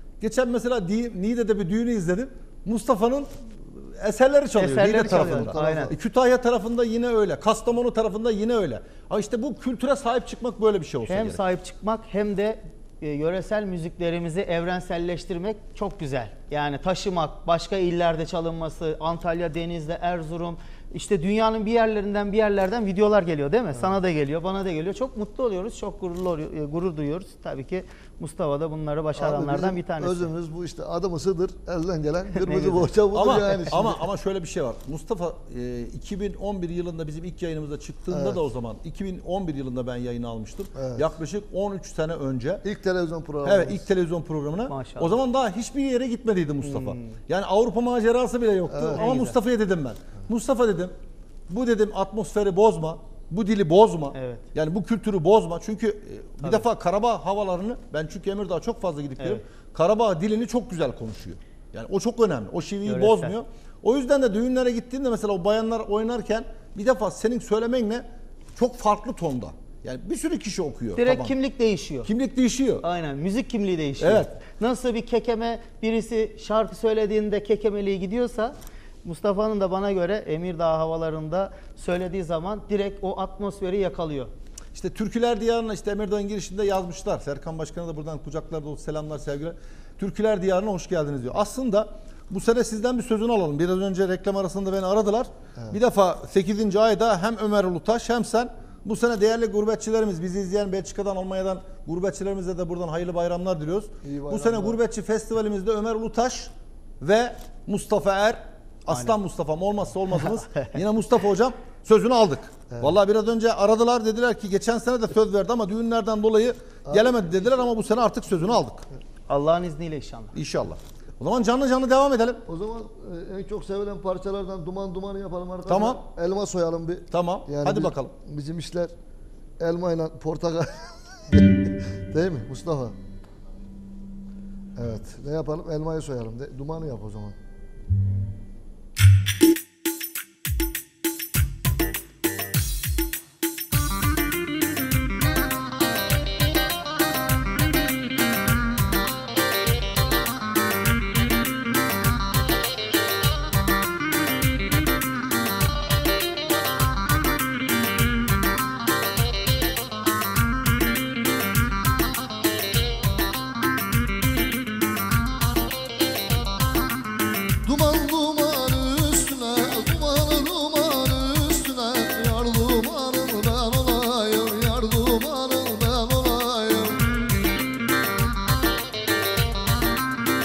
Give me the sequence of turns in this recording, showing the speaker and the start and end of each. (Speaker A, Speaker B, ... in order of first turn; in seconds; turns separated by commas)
Speaker A: 0.2-11.4, Speaker B: 4.6-5.9, Speaker C: 5.0-6.0, Speaker B: 11.1-30.3, Speaker C: 29.1-34.0, Speaker B: 32.4-32.9, Speaker A: 33.1-42.6, Speaker C: 38.1-38.4, Speaker C: 40.7-41.0, Speaker C: 42.6-43.9, Speaker A: 43.4-50.9, Speaker B: 44.7-45.2, Speaker B: 46.6-47.2, Speaker C: 48.7-49.0, Speaker B: 48.9-49.3, Speaker A: 51.5-68.0, Speaker B: 54.1-54.4, Speaker B: 62.9-63.3, Speaker A: 68.5-71.3, Speaker B: 71.0-72.1, Speaker A: 72.0-72.8, Speaker B: 72.8-84.3, Speaker A: 74.0-74.3, Speaker A: 84.7-118.8, Speaker C: 104.0-104.8, Speaker B: 110.2-110.8, Speaker B: 119.3-120.3, Speaker A: 120.3-122.4, Speaker C: 122.5-128.9, Speaker A: 125.7-126.0, Speaker A: 127.1-128.1, Speaker C: 129.6-132.9, Speaker C: 134.8-137.3, Speaker C: 167.6-177.0